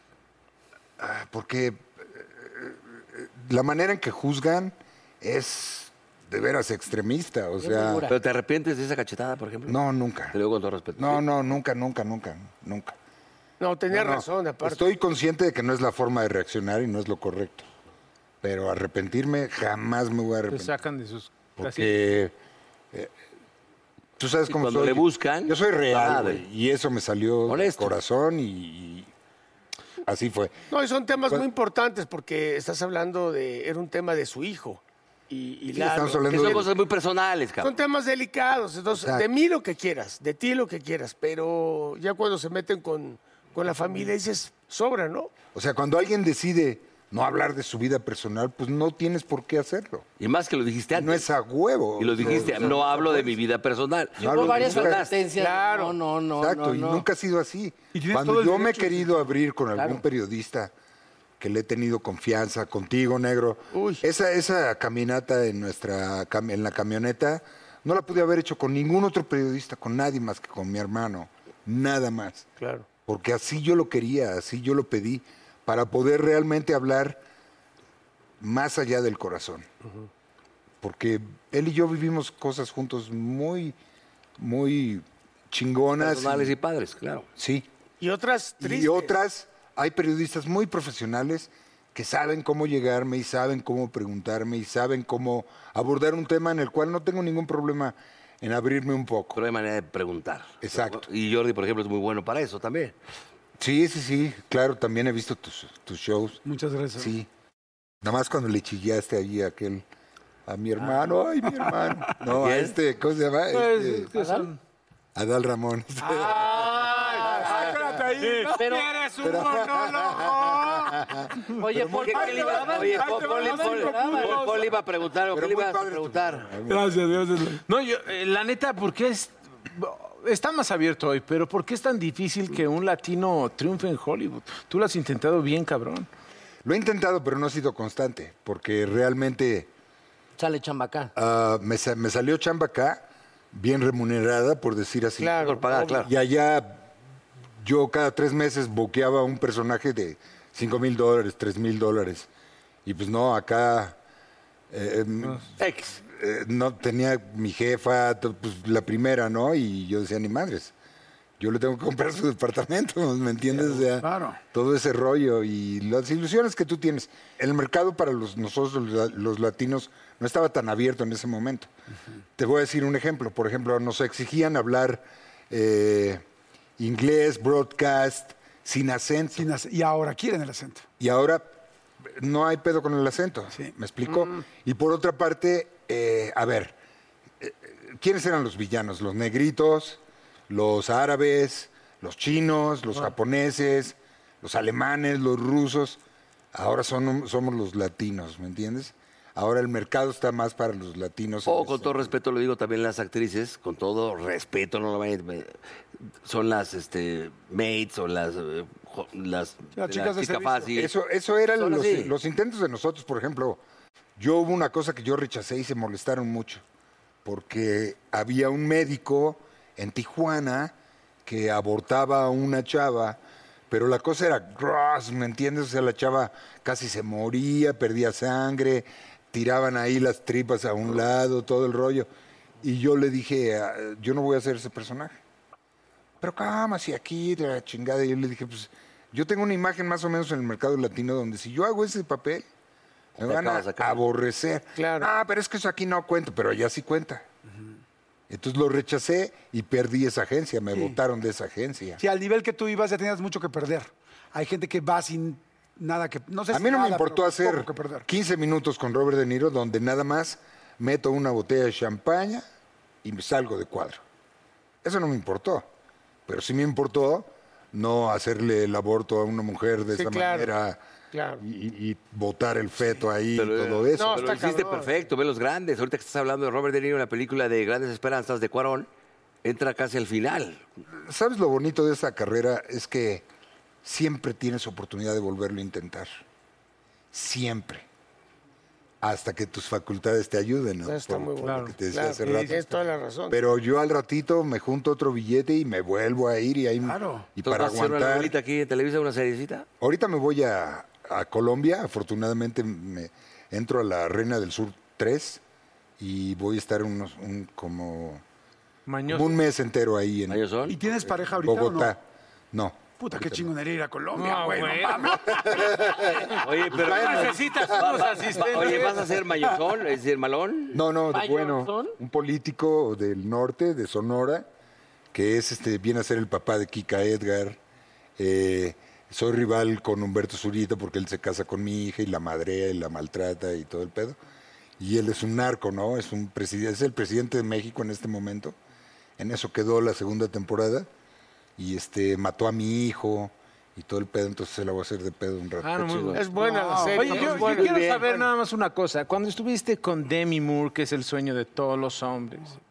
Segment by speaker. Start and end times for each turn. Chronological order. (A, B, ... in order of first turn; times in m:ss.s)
0:01.0-0:08.1 A
0:07.6-0:08.1 B
0:08.1-0:09.8 C
0:09.7-0:10.4 A
0:10.3-0:11.2 C
0:11.0-0:13.0 A
0:13.6-0:14.8 D
0:13.9-0:17.7 A
0:18.4-0:20.8 A
0:20.5-0:21.9 E
0:21.6-0:22.3 A
0:24.2-0:29.1 A
0:24.5-0:26.4 C
0:27.5-0:28.0 C
0:30.0-0:30.6 A
0:30.7-0:36.6 D
0:35.7-0:36.7 A
0:36.3-0:37.7 C
0:37.6-0:45.4 D
0:38.9-0:39.3 A
0:45.5-0:50.1 A
0:50.2-0:51.3 C
0:50.9-0:53.3 A
0:52.0-0:55.2 C
0:54.2-0:55.1 A
0:54.2-0:57.1 B
0:55.4-0:56.0 D
0:56.4-1:00.7 A
0:57.9-0:59.3 F
0:59.8-1:00.0 B
1:01.4-1:12.5 A
1:03.7-1:04.0 D
1:12.6-1:12.9 D
1:13.0-1:17.2 A
1:18.4-1:19.7 A
1:20.8-1:23.8 A
1:24.4-1:26.6 A
1:26.0-1:27.3 C
1:27.4-1:27.7 A
1:28.0-1:29.1 D
1:28.6-1:39.4 A
1:39.4-1:42.9 C
1:40.6-1:41.1 A
1:43.6-1:46.4 A
1:46.4-1:47.2 F
1:47.0-1:47.3 A
1:48.0-1:49.8 A
1:50.5-1:54.1 A
1:52.3-1:52.8 C
1:53.5-1:54.6 E
1:54.1-1:54.5 B
1:55.2-1:58.0 A
1:56.0-1:58.8 F
1:56.2-2:00.9 E
1:58.5-1:58.9 B
1:59.2-2:02.1 A
2:01.6-2:04.7 B
2:01.8-2:06.5 C
2:02.2-2:04.3 F
2:02.2-2:04.6 E
2:05.3-2:07.1 A
2:06.7-2:16.1 E
2:16.6-2:19.7 A
2:20.4-2:21.1 B
2:21.2-2:25.4 A
2:25.2-2:26.1 D
2:25.4-2:26.1 C
2:26.0-2:26.8 A
2:27.6-2:32.3 A
2:32.8-2:34.0 A
2:34.7-2:40.7 A
2:41.4-2:51.7 A
2:44.0-2:44.4 F
2:52.4-2:56.2 A
2:56.8-2:59.5 A
2:59.4-3:00.8 F
3:01.0-3:01.5 A
3:02.1-3:06.8 A
3:04.1-3:04.4 D
3:07.4-3:16.0 A
3:16.5-3:22.2 A
3:21.5-3:25.6 C
3:26.2-3:30.9 C
3:29.8-3:30.8 F
3:30.7-3:33.6 A
3:31.6-3:32.1 C
3:34.2-3:36.6 A
3:37.2-3:40.7 A
3:41.3-3:43.2 A
3:43.7-3:52.1 A
3:52.6-3:55.1 A
3:56.2-4:02.5 A
4:03.2-4:04.0 C
4:03.2-4:07.2 A
4:04.8-4:05.1 D
4:08.3-4:12.0 A
4:12.0-4:18.0 F
4:16.5-4:22.4 A
4:23.0-4:24.0 A
4:24.8-4:25.7 A
4:26.3-4:30.8 A
4:29.9-4:30.5 D
4:31.1-4:31.4 D
4:31.4-4:34.7 A
4:33.4-4:38.9 C
4:34.0-4:34.9 D
4:39.4-4:40.6 C
4:41.1-4:43.2 A
4:43.8-4:46.2 A
4:47.1-4:47.9 A
4:49.0-4:52.6 A
4:50.8-4:53.4 D
4:51.4-4:52.7 E
4:53.3-4:58.4 A
4:56.8-4:57.2 F
4:57.4-4:59.7 C
4:59.8-5:05.4 A
5:06.0-5:08.2 A
5:08.9-5:09.4 E
5:09.1-5:12.0 A
5:10.3-5:10.8 C
5:10.7-5:11.9 F
5:12.5-5:13.5 A
5:13.0-5:15.8 F
5:14.2-5:15.2 E
5:15.2-5:18.9 A
5:16.4-5:20.8 C
5:16.7-5:19.1 E
5:20.7-5:24.5 A
5:21.1-5:22.0 B
5:25.1-5:27.6 A
5:28.2-5:34.2 A
5:34.8-5:38.6 A
5:39.2-5:40.9 A
5:41.6-5:46.0 A
5:45.6-5:52.6 E
5:45.8-5:46.2 C
5:46.1-5:47.7 D
5:46.3-5:48.2 F
5:47.1-5:48.0 A